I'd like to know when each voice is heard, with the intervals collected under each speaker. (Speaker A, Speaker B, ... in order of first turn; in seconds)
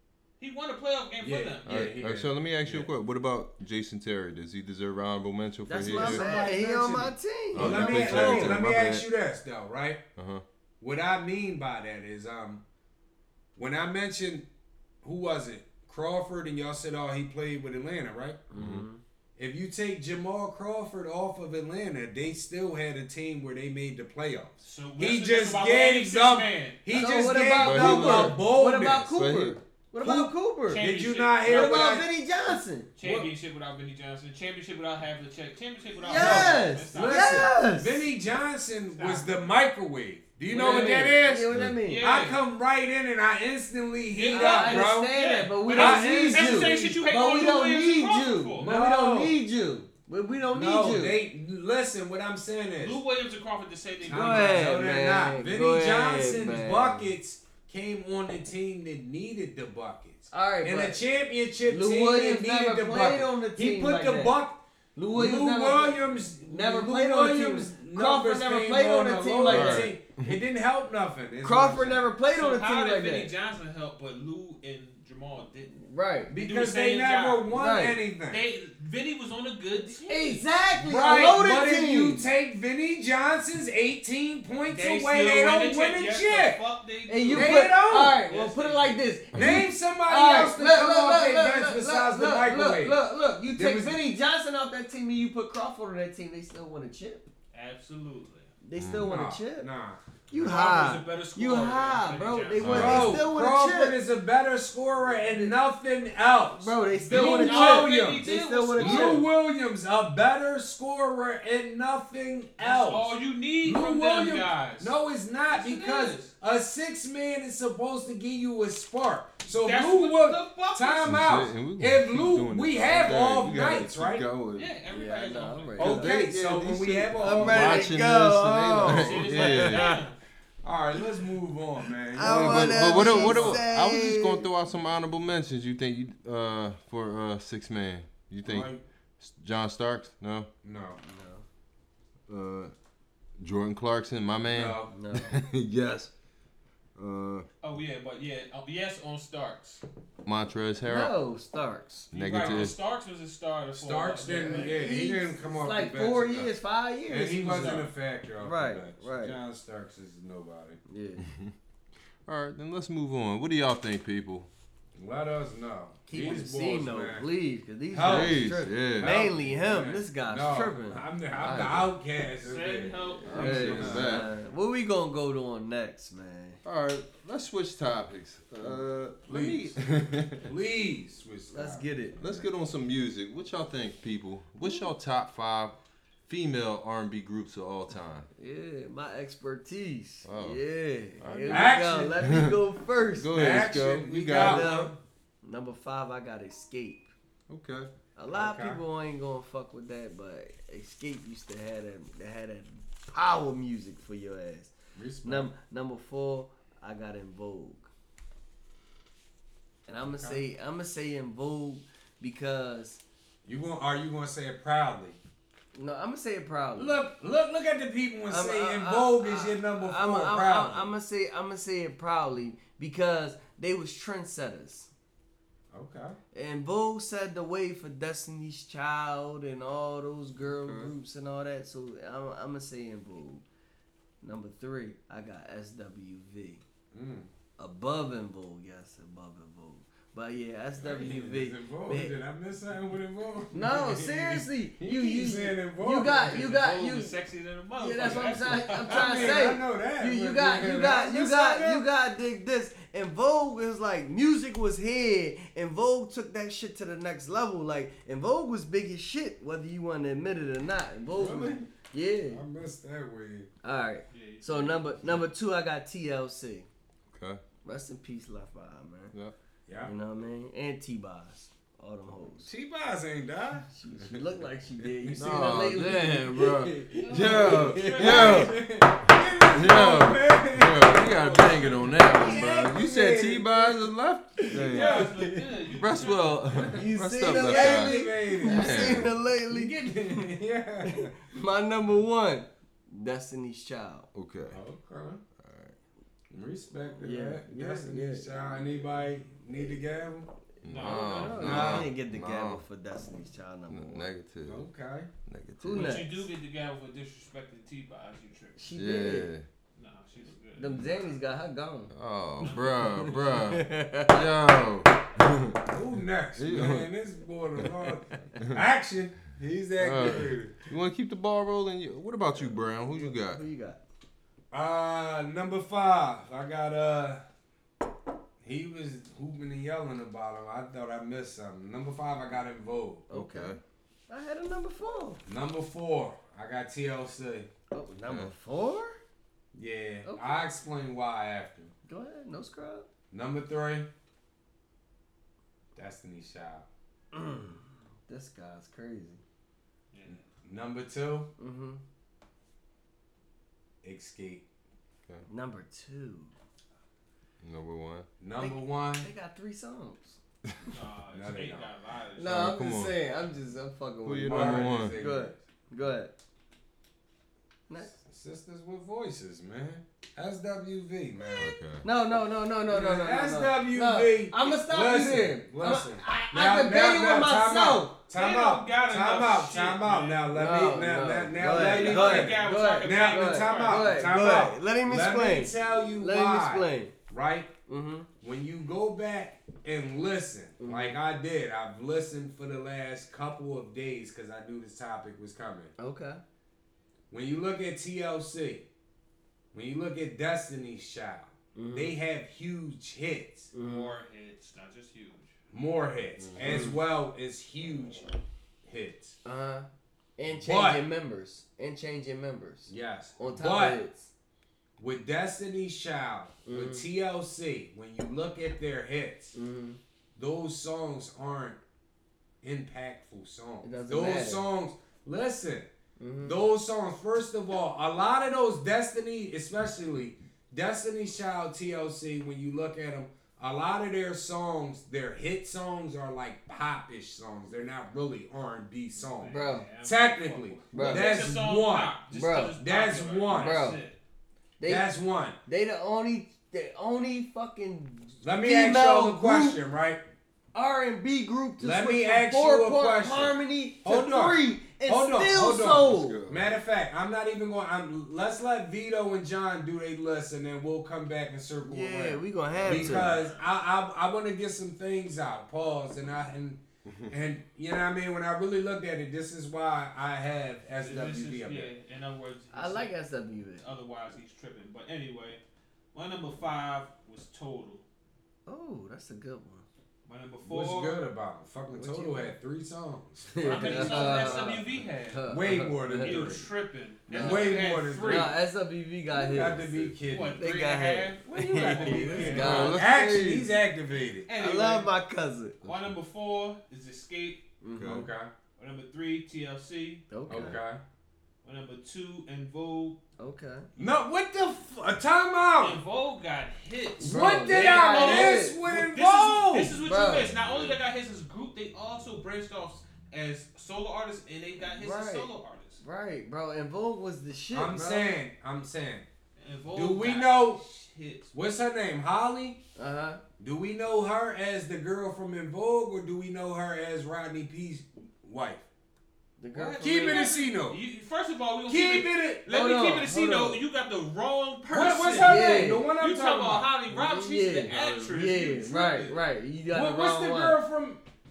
Speaker A: 0.4-1.7, 24.6-26.8, 30.7-32.1, 33.0-37.5, 38.9-39.4, 40.5-41.1, 41.8-42.4, 44.1-48.7, 52.8-54.6, 72.3-75.7, 76.3-77.5, 78.3-80.5, 84.7-89.1, 97.5-98.5, 100.3-103.2, 106.9-109.2, 112.6-114.9, 115.5-116.3, 119.5-121.4, 124.5-125.9, 128.8-130.2, 147.6-149.8, 152.1-154.9, 157.4-157.9, 172.4-174.0, 246.0-249.5, 264.1-265.2, 277.1-278.6, 280.8-282.2, 284.6-286.7, 300.6-301.8, 305.7-308.6, 309.8-311.0, 312.4-313.4, 349.9-350.2, 360.7-362.4, 378.1-380.3, 381.4-384.2, 403.6-405.3, 438.9-444.0, 462.8-463.5, 470.8-472.9, 473.6-475.4, 475.9-477.8, 480.0-481.0, 483.4-485.3, 486.0-488.3, 490.1-492.8, 494.3-494.9, 495.6-497.4, 498.6-500.1, 501.4-503.0, 505.6-515.8, 519.4-521.3, 529.7-539.2
Speaker B: 1.2-2.9, 5.9-10.0, 10.8-12.6, 13.6-14.5, 15.0-18.4, 19.4-29.1, 30.0-32.1, 33.0-33.3, 36.1-47.0, 48.6-49.4, 50.5-53.0, 54.0-72.1, 76.3-78.4, 80.8-86.6, 87.3-88.2, 89.3-94.0, 99.0-100.0, 102.6-124.2, 125.8-127.9, 130.6-133.7, 138.4-138.8, 140.6-141.0, 144.4-144.9, 152.4-152.7, 153.7-156.5, 157.1-160.8, 164.9-167.3, 167.9-174.3, 178.6-179.8, 180.4-182.5, 191.5-192.2, 193.3-194.9, 198.3-198.8, 204.9-205.5, 209.9-210.4, 213.4-215.2, 216.8-220.9, 225.7-226.2, 236.9-237.3, 240.8-246.4, 248.0-251.8, 261.1-261.7, 262.3-263.5, 269.7-269.9, 272.4-274.2, 274.8-275.5, 277.5-283.9, 284.6-285.2, 287.2-291.1, 294.5-295.2, 296.3-300.3, 301.3-301.9, 304.4-305.1, 315.6-320.6, 324.5-327.2, 328.4-333.1, 335.2-337.5, 339.5-341.7, 343.1-343.9, 345.7-346.7, 350.1-351.3, 353.8-354.4, 358.2-359.1, 361.1-361.7, 364.2-365.4, 367.9-371.5, 372.7-387.5, 388.2-395.7, 397.1-398.7, 399.5-403.5, 405.5-408.1, 408.6-409.2, 410.3-410.9, 412.7-413.8, 414.8-419.3, 420.1-421.6, 422.4-425.7, 426.2-441.9, 442.5-443.7, 444.6-445.4, 448.2-450.0, 451.6-471.7, 480.4-484.6, 485.3-486.5, 487.1-488.3, 489.1-490.4, 491.3-494.3, 497.8-498.3, 500.3-500.8, 503.8-505.8, 507.0-509.8, 517.5-519.0, 519.7-520.6, 521.3-522.6, 523.4-528.6, 529.6-530.8, 531.7-532.4, 534.7-536.7, 539.7-541.0
Speaker C: 1.6-6.2, 7.5-9.1, 10.2-10.4, 18.6-18.8, 27.6-29.6, 41.5-41.8, 69.5-70.4, 89.3-89.7, 98.7-99.1, 102.6-103.2, 121.0-124.7, 125.8-129.9, 132.2-140.5, 142.3-142.7, 143.4-146.1, 147.0-147.4, 150.2-151.1, 152.1-152.7, 161.2-161.5, 162.2-164.5, 168.0-169.1, 173.2-174.3, 176.6-180.5, 182.2-185.8, 186.3-188.3, 190.2-190.6, 191.2-192.6, 193.2-194.8, 197.5-197.9, 267.1-267.4, 275.1-285.1, 285.7-289.1, 294.1-294.6, 295.4-295.7, 300.6-302.6, 303.7-304.7, 305.2-306.1, 308.7-309.4, 311.9-315.6, 316.4-316.9, 319.8-323.4, 333.1-333.6, 357.4-358.1, 362.2-362.9, 364.0-365.0, 371.4-371.8, 406.2-406.5, 455.5-456.6, 462.6-463.0, 489.4-489.9, 492.3-493.5, 495.6-495.9, 497.7-498.1, 510.4-510.8
Speaker D: 5.7-8.6, 18.5-19.0, 26.9-30.9, 31.4-32.9, 36.0-38.1, 40.5-42.0, 44.3-51.2, 54.0-57.1, 60.3-61.0, 61.6-64.4, 65.0-69.9, 71.4-73.3, 75.8-76.3, 77.5-78.0, 80.0-82.2, 87.1-97.3, 98.6-99.7, 100.3-104.0, 105.0-105.6, 106.6-109.2, 124.9-126.2, 127.2-130.0, 132.1-134.5, 141.0-141.4, 144.9-145.4, 150.8-152.1, 154.2-157.9, 158.4-159.4, 160.9-161.2, 166.1-171.9, 173.2-176.6, 181.5-182.2, 188.3-193.7, 194.3-197.1, 198.2-207.9, 209.9-213.0, 215.7-217.0, 218.3-224.9, 226.3-233.4, 234.2-236.6, 237.6-242.2, 243.5-247.2, 247.8-262.4, 263.6-266.7, 267.6-269.1, 269.8-272.5, 273.7-278.5, 282.1-282.7, 284.4-285.4, 286.6-290.3, 290.9-294.1, 297.0-298.7, 300.7-304.1, 305.6-306.2, 308.6-309.3, 310.6-311.9, 313.0-314.3, 322.3-323.8, 333.1-335.2, 337.7-339.0, 340.0-340.4, 341.9-342.9, 347.1-349.2, 351.4-351.8, 355.3-356.3, 358.4-360.2, 362.1-366.1, 367.7-367.9, 371.8-377.9, 380.3-386.9, 387.7-388.1, 390.6-391.0, 395.8-396.2, 401.5-401.9, 403.5-403.9, 406.4-406.8, 409.2-414.1, 416.4-416.8, 419.3-419.8, 423.6-424.4, 426.0-426.3, 439.3-439.6, 440.7-441.2, 442.1-442.6, 443.3-443.8, 444.6-444.9, 445.4-449.6, 450.5-456.2, 461.6-463.2, 472.5-473.6, 478.4-479.6, 481.7-482.3, 483.3-486.3, 487.1-489.8, 490.3-492.8, 494.4-495.6, 497.6-498.1, 500.1-500.6, 503.2-503.7, 507.0-508.6, 509.8-510.3, 514.7-515.3, 515.8-518.2, 522.8-523.2, 529.4-530.3, 532.5-533.6, 535.2-535.9, 536.9-540.6